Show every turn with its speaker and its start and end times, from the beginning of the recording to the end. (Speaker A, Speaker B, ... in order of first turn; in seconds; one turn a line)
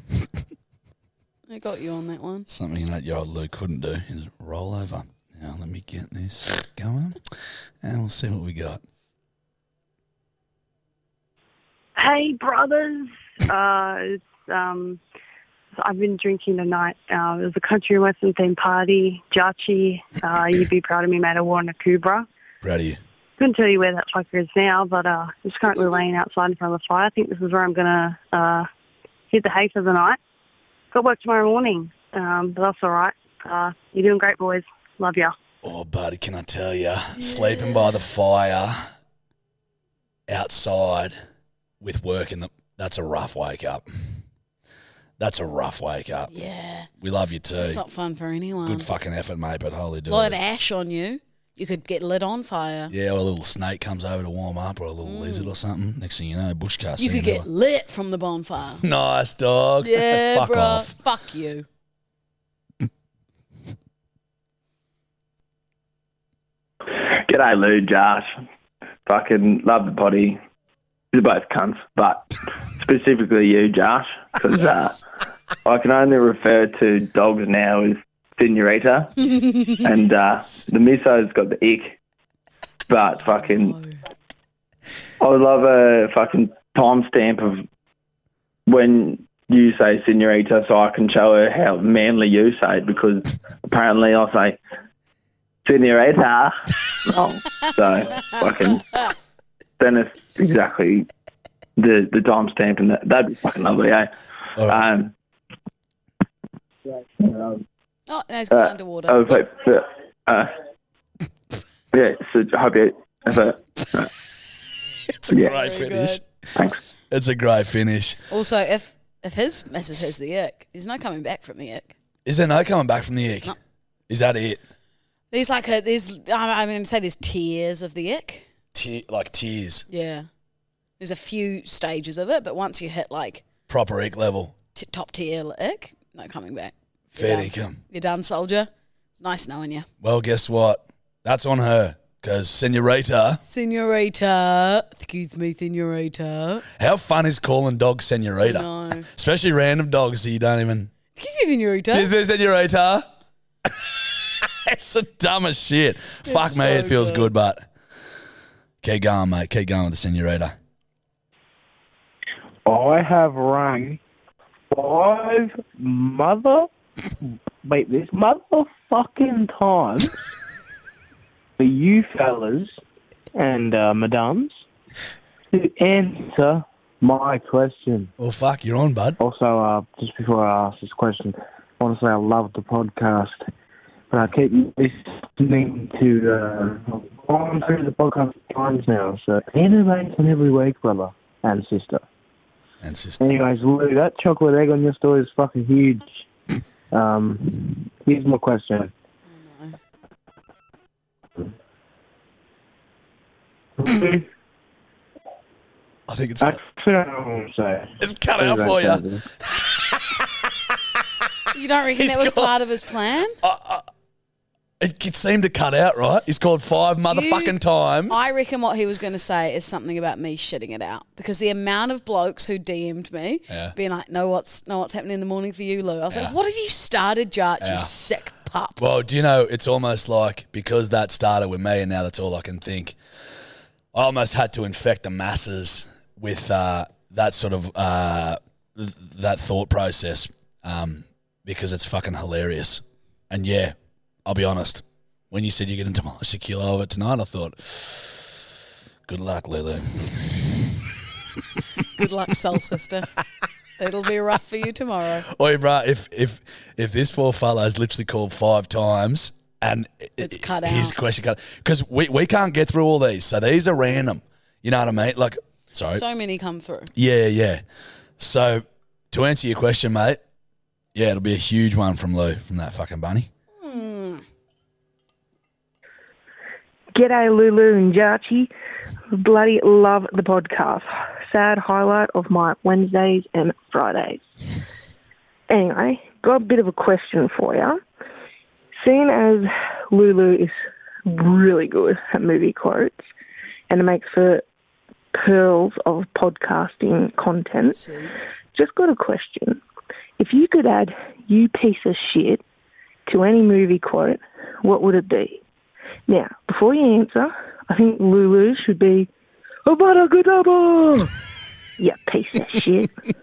Speaker A: 1.5-2.5
Speaker B: 2.5-8.8
Speaker C: 11.9-15.0
Speaker C: 15.8-22.3
Speaker B: 22.6-23.0
Speaker C: 23.4-28.7
Speaker C: 29.3-30.2
Speaker C: 30.9-35.3
Speaker B: 35.6-38.9
Speaker A: 37.2-37.9
Speaker B: 40.3-41.2
Speaker B: 41.8-44.2
Speaker B: 45.2-46.3
Speaker A: 46.3-46.9
Speaker B: 47.0-47.8
Speaker A: 47.5-48.9
Speaker B: 48.6-50.4
Speaker A: 50.1-52.9
Speaker B: 52.9-57.5
Speaker A: 55.0-55.5
Speaker A: 57.0-58.8
Speaker B: 58.8-60.9
Speaker A: 59.8-61.6
Speaker D: 66.9-68.4
Speaker D: 69.0-70.4
Speaker D: 71.1-75.0
Speaker D: 75.6-79.1
Speaker D: 79.8-82.0
Speaker D: 82.9-83.8
Speaker A: 83.2-84.0
Speaker D: 85.2-87.7
Speaker D: 88.7-94.6
Speaker D: 95.6-96.5
Speaker D: 97.0-98.8
Speaker D: 99.8-101.1
Speaker D: 101.8-104.1
Speaker B: 104.6-104.9
Speaker D: 104.7-105.1
Speaker D: 107.2-107.6
Speaker A: 108.1-109.2
Speaker D: 108.5-110.5
Speaker D: 111.9-114.1
Speaker B: 115.2-116.2
Speaker A: 115.3-116.2
Speaker B: 117.1-118.2
Speaker A: 118.3-121.9
Speaker B: 122.2-123.5
Speaker B: 124.1-124.6
Speaker A: 125.3-128.5
Speaker B: 128.7-129.8
Speaker A: 129.9-130.3
Speaker A: 131.0-133.4
Speaker B: 133.7-134.5
Speaker A: 134.7-139.9
Speaker B: 137.2-137.8
Speaker B: 140.0-143.4
Speaker A: 143.4-146.6
Speaker B: 146.8-150.9
Speaker A: 148.4-149.1
Speaker A: 151.2-152.1
Speaker B: 151.9-153.1
Speaker B: 153.7-157.7
Speaker A: 156.2-157.3
Speaker B: 158.8-160.5
Speaker E: 162.7-164.0
Speaker E: 164.7-166.7
Speaker E: 167.6-170.2
Speaker E: 171.6-172.8
Speaker E: 173.4-174.6
Speaker E: 175.5-178.1
Speaker B: 178.2-179.2
Speaker E: 179.2-183.4
Speaker E: 184.1-192.0
Speaker B: 192.8-193.4
Speaker E: 193.2-196.2
Speaker E: 196.9-198.9
Speaker A: 199.3-199.8
Speaker E: 203.8-204.2
Speaker B: 206.1-206.6
Speaker E: 206.4-209.2
Speaker B: 208.0-210.2
Speaker A: 211.5-213.4
Speaker B: 211.9-212.6
Speaker B: 213.4-213.9
Speaker B: 214.8-218.3
Speaker A: 217.1-217.6
Speaker A: 218.1-228.8
Speaker B: 223.5-223.7
Speaker B: 227.6-227.9
Speaker B: 228.8-233.0
Speaker B: 233.9-248.5
Speaker B: 249.1-250.7
Speaker A: 251.9-253.1
Speaker A: 253.8-255.2
Speaker B: 255.2-266.0
Speaker A: 260.2-261.0
Speaker A: 265.9-266.9
Speaker B: 266.9-267.6
Speaker B: 268.2-270.2
Speaker B: 270.9-273.3
Speaker A: 273.6-274.2
Speaker F: 276.9-278.5
Speaker F: 279.1-284.2
Speaker F: 285.5-287.8
Speaker F: 288.8-293.0
Speaker F: 293.7-294.4
Speaker F: 295.1-297.8
Speaker A: 297.7-298.1
Speaker F: 298.5-299.6
Speaker F: 300.2-302.4
Speaker F: 303.1-305.4
Speaker F: 306.1-309.1
Speaker F: 309.6-311.1
Speaker F: 311.8-312.9